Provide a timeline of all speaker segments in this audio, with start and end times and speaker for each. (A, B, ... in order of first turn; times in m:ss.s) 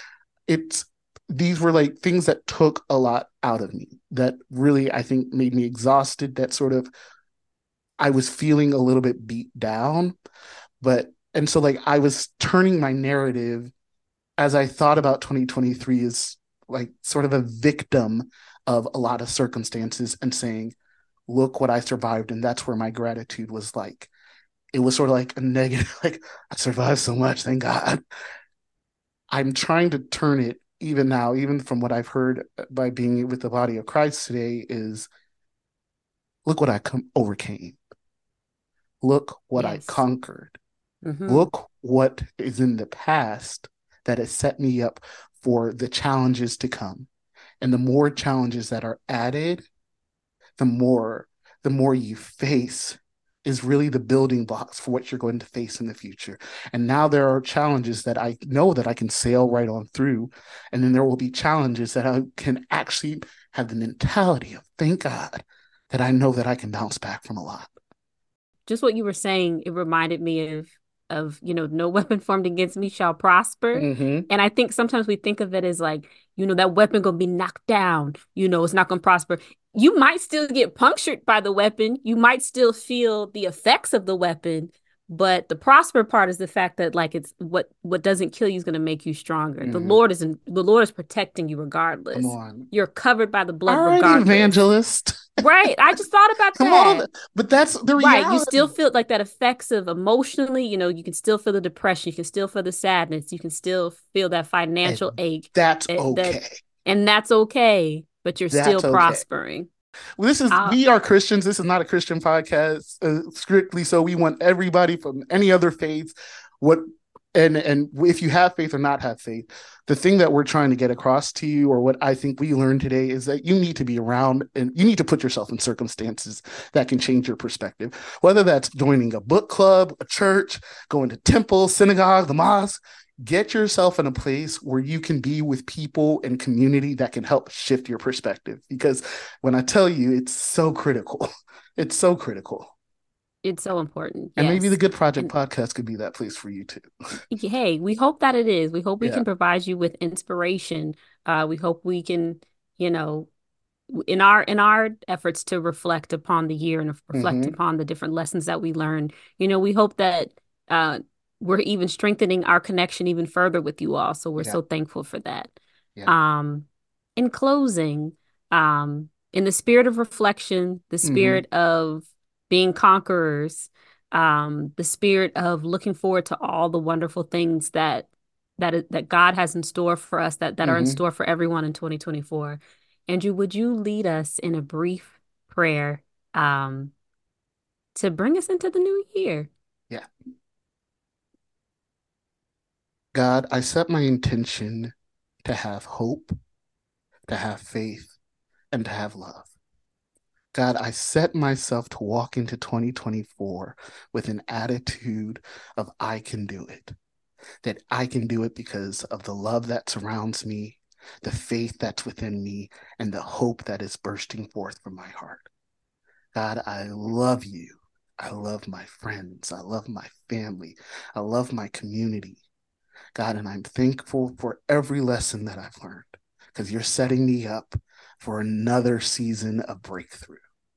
0:00.5-0:06.9 A
0:08.0-0:10.2 A
0:10.8-0:13.7 A
0:14.4-0:20.8 A
0:21.3-0:24.1 A
0:24.7-0:28.0 A
0:29.3-0:35.1 A
0:36.5-0:37.8 A
0:39.0-0:40.6 A
0:39.6-0:40.0 B
0:41.0-0:41.5 B
0:41.3-0:47.1 A
0:47.6-0:49.7 A
0:50.6-1:07.7 A
1:08.7-1:34.6 B
1:13.7-1:14.3 A
1:29.6-1:30.0 A
1:32.1-1:32.7 A
1:33.7-1:35.4 A
1:35.4-1:37.1 B
1:36.6-1:38.7 A
1:38.0-1:49.7 B
1:44.8-1:46.5 A
1:48.5-1:49.2 A
1:50.2-1:56.8 A
1:50.5-1:50.8 B
1:57.4-2:22.8 A
2:23.4-2:25.3 B
2:24.4-2:26.9 A
2:27.3-2:33.3 B
2:33.9-2:45.5 B
2:37.1-2:37.6 A
2:46.1-3:06.9 B
2:51.0-2:51.4 A
3:00.6-3:01.0 A
3:08.0-3:09.5 B
3:13.1-3:14.9 A
3:15.4-3:16.4 A
3:17.3-3:18.2 A
3:18.7-3:19.5 A
3:20.5-3:27.0 A
3:27.6-3:35.5 A
3:36.3-3:42.4 A
3:43.2-3:50.4 A